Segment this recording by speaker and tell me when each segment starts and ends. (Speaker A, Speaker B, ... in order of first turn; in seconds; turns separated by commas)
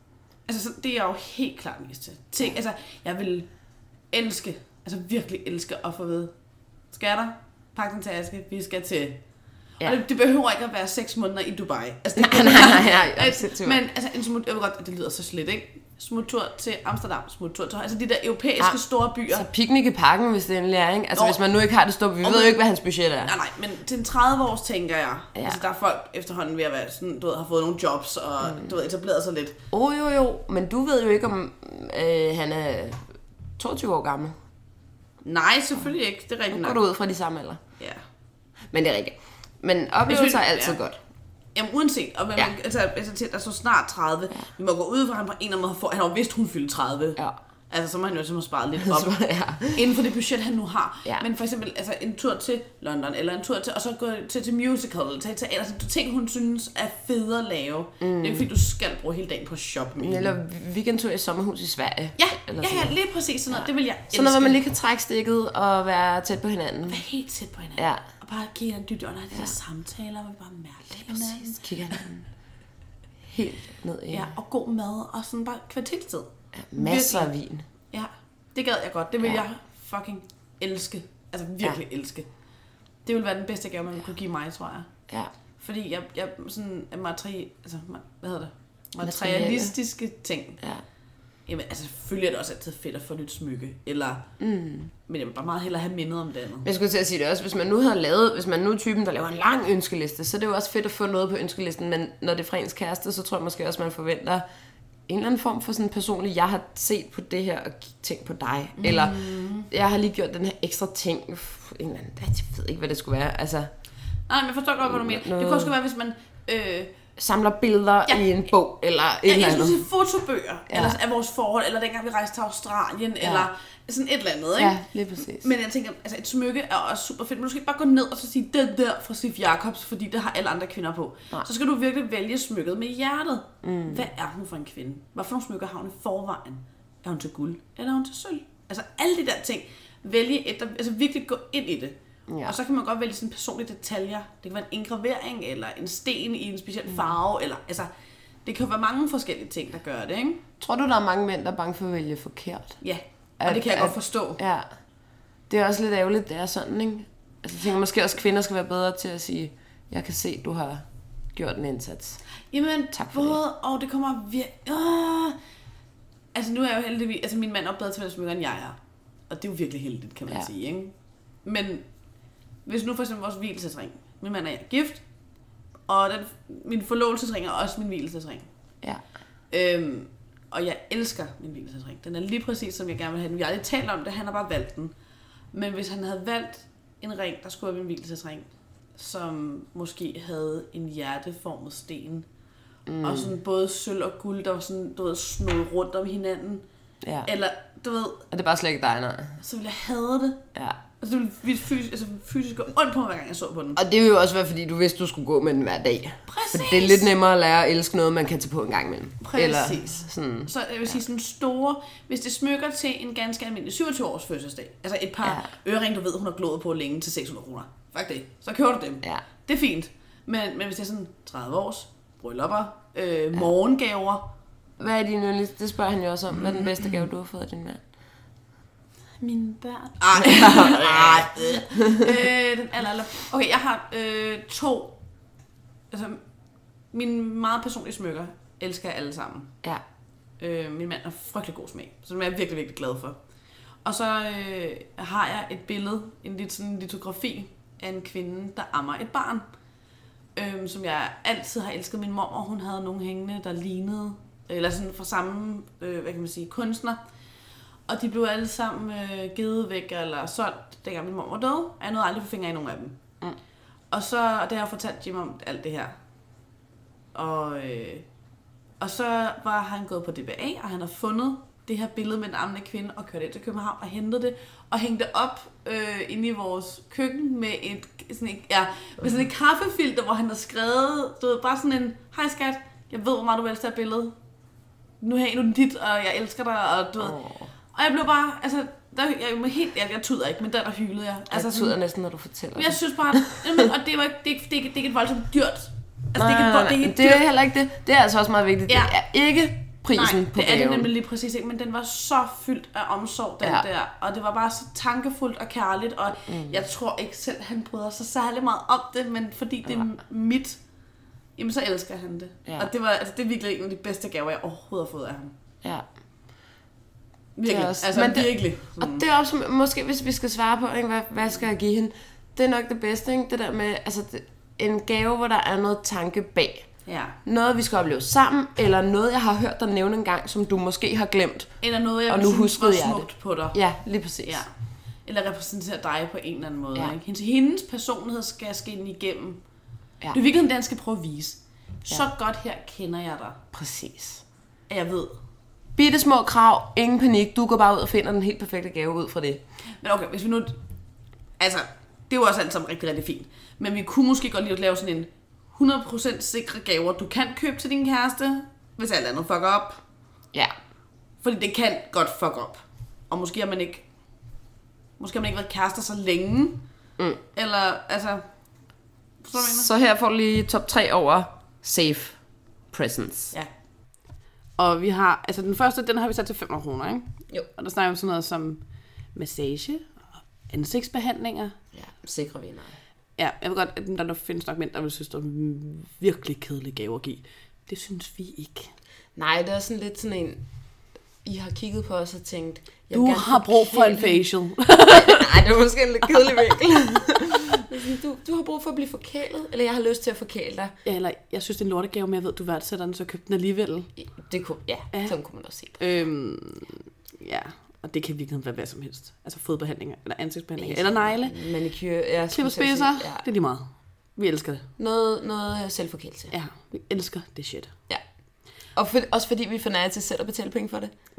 Speaker A: 0.5-3.5, Speaker A: 4.1-6.3, Speaker A: 6.9-9.2, Speaker A: 9.8-19.5, Speaker B: 12.2-13.8, Speaker B: 19.3-23.3, Speaker A: 21.1-21.4, Speaker A: 22.2-22.6, Speaker A: 23.2-29.6, Speaker B: 28.4-28.7, Speaker B: 29.7-33.1, Speaker B: 33.6-34.4, Speaker A: 35.2-36.8, Speaker B: 36.5-37.6, Speaker B: 38.7-41.0, Speaker A: 40.1-40.8, Speaker A: 41.5-49.2, Speaker B: 48.8-49.9, Speaker A: 49.7-60.4, Speaker B: 58.0-58.5, Speaker B: 60.0-62.9, Speaker A: 62.2-64.6, Speaker B: 63.5-67.0, Speaker A: 66.9-72.0, Speaker B: 67.8-68.0, Speaker B: 71.0-72.3, Speaker B: 73.2-74.3, Speaker A: 74.1-77.3, Speaker B: 76.5-77.7, Speaker A: 77.9-82.3, Speaker A: 83.1-84.9, Speaker A: 85.6-90.6, Speaker B: 89.0-89.7, Speaker A: 91.5-94.3, Speaker B: 94.4-94.9, Speaker A: 95.1-96.7, Speaker B: 96.6-104.4, Speaker B: 105.1-113.7, Speaker A: 108.8-109.7, Speaker A: 114.3-117.0, Speaker B: 114.8-115.7, Speaker B: 117.2-119.8, Speaker A: 119.3-147.9, Speaker B: 120.7-121.0, Speaker B: 123.2-123.5, Speaker B: 124.6-125.5, Speaker B: 133.6-134.1, Speaker B: 142.3-142.6, Speaker A: 148.4-150.4, Speaker B: 150.6-152.8, Speaker A: 152.8-154.4, Speaker B: 153.4-154.7, Speaker B: 155.5-162.2, Speaker A: 162.5-165.4, Speaker B: 162.9-163.4, Speaker A: 166.3-168.8, Speaker A: 169.3-170.9, Speaker A: 171.4-171.8, Speaker A: 172.7-175.0, Speaker A: 175.9-178.5, Speaker A: 179.5-184.9, Speaker A: 185.5-192.3, Speaker B: 192.9-193.3, Speaker A: 193.0-196.6, Speaker B: 197.0-197.3, Speaker A: 197.2-198.3, Speaker B: 198.3-199.4, Speaker A: 199.4-200.4, Speaker A: 201.0-203.8, Speaker B: 203.8-210.9, Speaker A: 206.3-207.1, Speaker A: 209.2-224.3, Speaker B: 215.2-215.5, Speaker B: 224.8-227.8, Speaker A: 229.2-235.0, Speaker B: 230.1-232.2, Speaker A: 235.9-236.2, Speaker A: 236.9-239.6, Speaker A: 240.4-243.2, Speaker A: 243.8-249.4, Speaker A: 250.4-257.0, Speaker A: 257.9-263.0, Speaker A: 263.9-265.9, Speaker A: 267.1-268.1, Speaker A: 268.8-284.1, Speaker A: 285.0-287.2, Speaker B: 287.0-287.5, Speaker A: 287.7-291.8, Speaker B: 291.3-293.7, Speaker A: 292.6-297.2, Speaker B: 296.2-300.9, Speaker A: 298.7-298.9, Speaker A: 299.9-310.6, Speaker B: 306.3-306.6, Speaker A: 311.4-315.3, Speaker A: 317.4-319.0, Speaker B: 317.5-326.7, Speaker A: 326.9-327.2, Speaker B: 327.2-331.5, Speaker A: 331.6-333.6, Speaker B: 332.1-334.4, Speaker A: 335.1-339.4, Speaker A: 340.1-343.4, Speaker B: 343.5-344.2, Speaker A: 344.7-345.2, Speaker B: 345.8-349.4, Speaker A: 349.8-350.6, Speaker A: 351.4-359.8, Speaker A: 361.2-363.9, Speaker A: 365.0-366.6, Speaker A: 367.3-368.2, Speaker A: 369.2-369.7, Speaker B: 369.4-372.2, Speaker B: 372.7-373.3, Speaker A: 374.6-378.6, Speaker A: 379.1-379.9, Speaker A: 380.5-381.6, Speaker B: 381.8-382.8, Speaker A: 383.2-388.7, Speaker B: 389.2-390.4, Speaker B: 391.2-394.2, Speaker A: 392.9-395.3, Speaker B: 394.9-400.7, Speaker A: 400.9-403.9, Speaker B: 404.0-405.8, Speaker A: 405.8-411.4, Speaker B: 410.6-413.2, Speaker A: 412.3-414.7, Speaker B: 414.8-416.3, Speaker A: 416.3-417.7, Speaker B: 418.8-420.9